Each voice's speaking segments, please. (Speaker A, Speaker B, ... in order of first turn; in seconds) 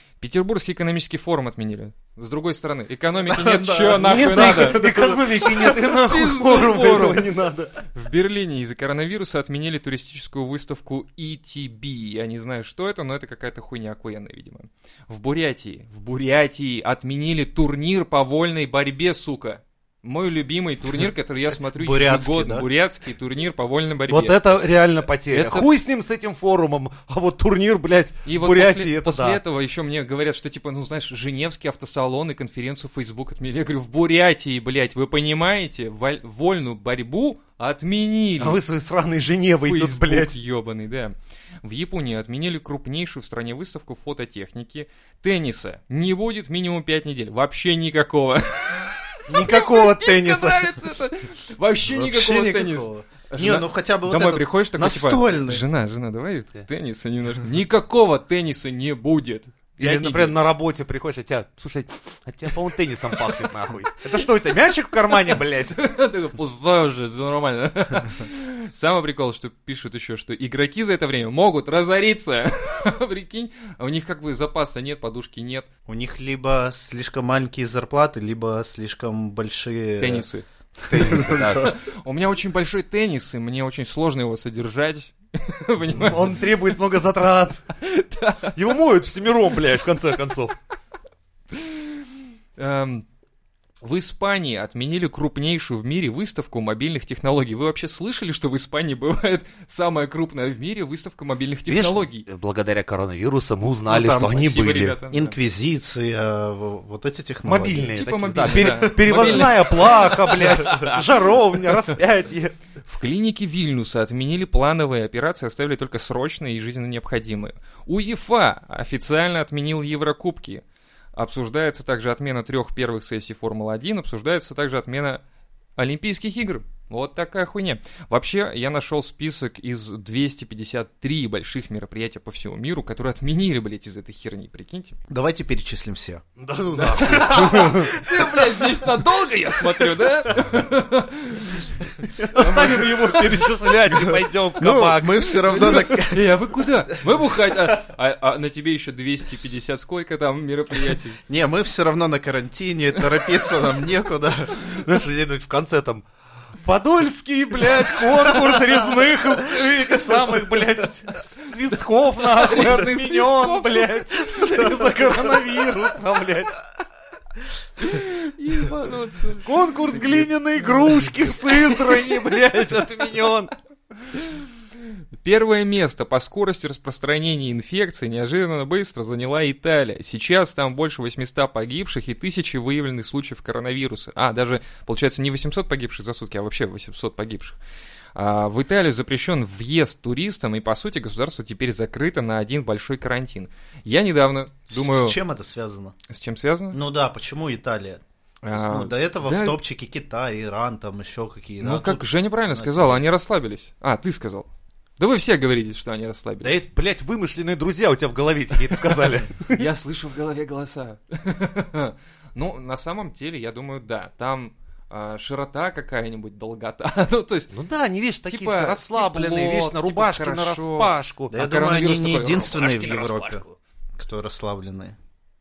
Speaker A: 0.2-7.2, 7.9-24.4, 25.3-25.7, 28.2-38.6, 39.6-60.3, 65.7-75.7, 80.0-80.4, 81.5-86.5, 87.7-88.7, 91.5-92.0, 92.6-93.0, 93.8-102.3, 103.9-105.3, 107.9-111.0, 112.8-120.6, 121.2-125.2, 125.8-134.9, 136.8-141.7, 142.3-143.0, 145.9-151.2, 162.3-164.7, 167.8-170.2, 171.5-172.6, 174.1-174.4, 175.2-187.6, 188.1-195.2, 196.1-196.8, 198.4-199.6, 201.6-204.5, 205.0-206.6, 209.5-217.5, 218.3-223.5
Speaker B: 3.2-5.0, 21.7-22.7, 51.8-55.6, 75.9-80.2, 80.8-81.7, 103.9-104.3, 105.1-108.0, 135.1-136.2, 137.0-138.2, 142.3-142.9, 143.9-146.3, 151.3-154.6, 194.7-195.9, 196.7-203.1, 221.3-223.4, 224.0-224.9
Speaker C: 3.9-7.8, 24.1-29.4, 38.4-40.3, 49.3-50.8, 59.8-65.8, 80.9-81.7, 85.9-87.7, 88.5-90.5, 101.7-105.0, 107.4-112.5, 136.4-137.9, 142.3-145.9, 154.6-156.0, 156.6-166.5, 169.4-173.5, 206.4-209.6, 217.5-221.3